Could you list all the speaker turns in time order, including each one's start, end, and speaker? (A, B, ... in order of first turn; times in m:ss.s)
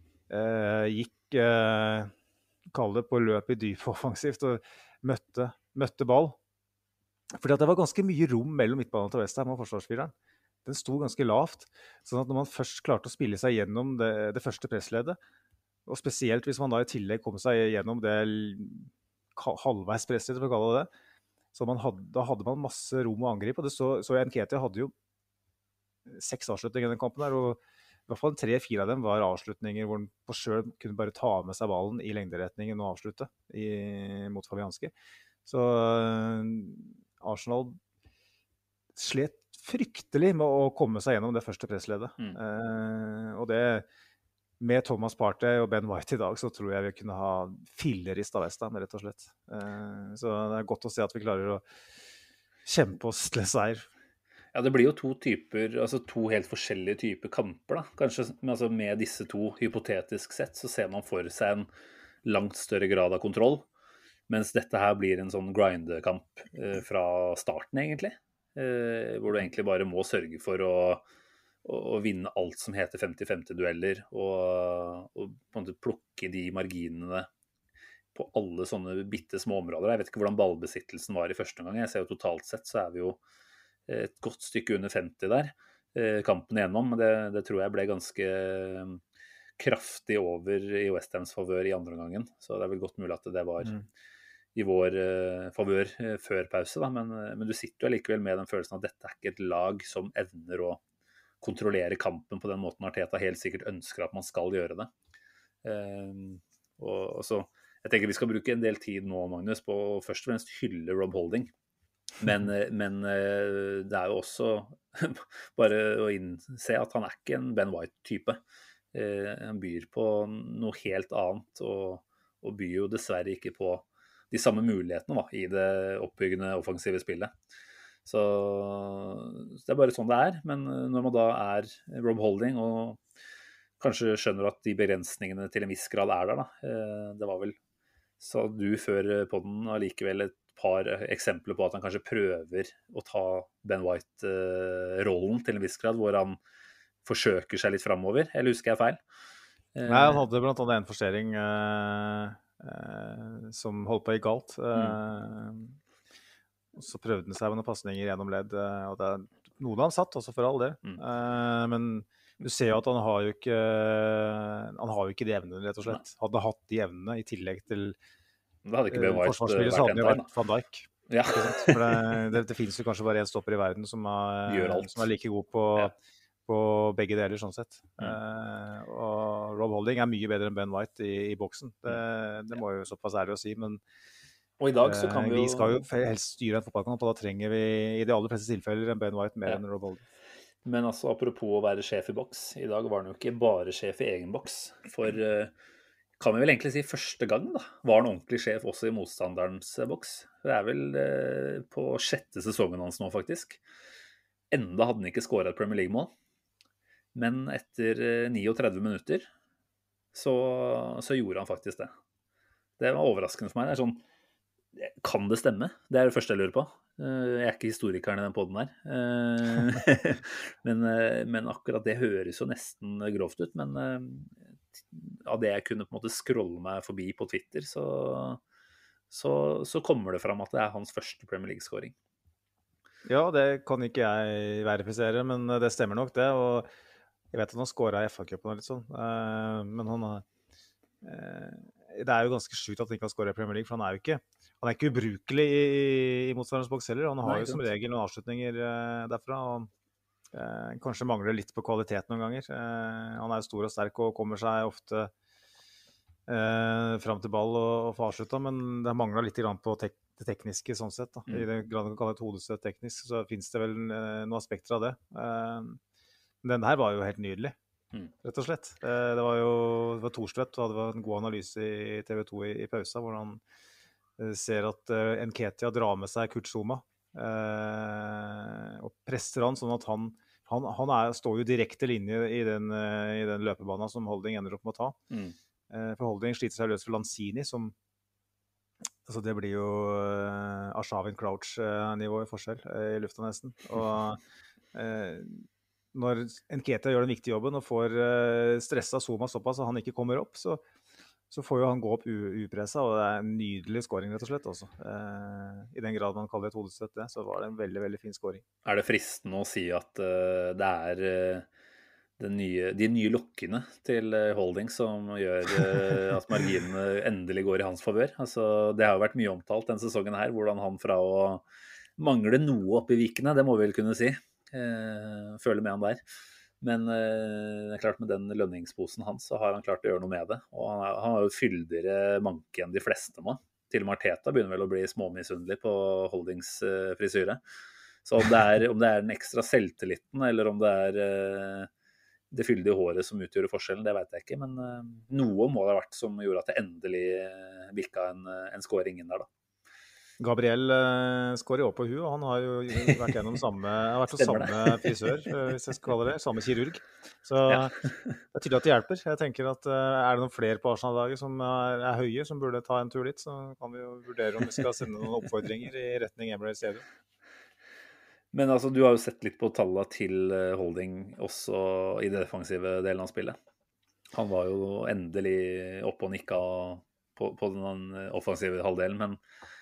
0:00.3-0:02.1 A
0:02.7-0:06.4 A
0:07.3-0:10.1 A
0:10.6-0:15.2 A
0:15.9-0:20.9 A
0:21.5-0:24.9 A
0:26.1-0:34.9 A
0:35.4-0:37.8 A
0:39.0-0:43.9 A
0:44.6-0:51.6 A
0:52.6-0:53.9 A
0:54.5-1:01.7 B
1:02.2-1:03.6 B
1:04.3-1:11.0 B
1:11.6-1:17.3 B
1:18.2-1:23.2 B
1:23.9-1:29.0 B
1:29.6-1:33.8 B
1:34.6-1:40.8 B
1:41.4-1:44.9 B
1:45.6-1:51.5 B
1:52.2-1:58.4 B
1:58.9-2:07.3 B
2:08.1-2:13.0 B
2:13.8-2:17.6 B
2:18.2-2:26.4 B
2:27.0-2:29.0 B
2:29.8-2:30.2 B
2:29.9-2:35.8 A
2:34.7-2:35.0 B
2:36.8-2:48.0 A
2:48.7-2:50.3 B
2:48.9-2:55.9 A
2:51.1-2:52.2 B
2:54.5-2:55.1 B
2:56.5-3:03.8 A
3:04.6-3:05.8 B
3:04.8-3:10.0 A
3:10.6-3:15.5 B
3:16.2-3:23.6 B
3:24.5-3:26.1 B
3:27.2-3:29.3 B
3:30.1-3:31.9 B
3:32.8-3:34.0 B
3:34.8-3:44.4 B
3:44.9-3:48.4 B
3:49.1-3:51.9 B
3:53.0-3:56.7 A
3:57.3-4:00.3 A
4:01.0-4:09.7 A
4:07.2-4:07.7 B
4:10.3-4:15.1 A
4:16.3-4:25.8 A
4:26.4-4:27.6 A
4:28.2-4:33.4 A
4:34.2-4:45.0 A
4:45.1-4:45.4 B
4:45.7-4:47.7 A
4:49.0-4:54.2 A
4:54.7-5:00.6 A
5:01.3-5:08.4 A
5:08.6-5:11.5 B
5:12.2-5:21.4 B
5:22.0-5:26.0 B
5:26.6-5:37.4 B
5:38.0-5:41.7 B
5:42.3-5:49.3 B
5:50.2-6:06.8 A
5:52.8-5:53.1 B
5:54.1-5:55.4 B
5:57.5-5:58.2 B
6:08.3-6:13.4 B
6:14.1-6:19.2 B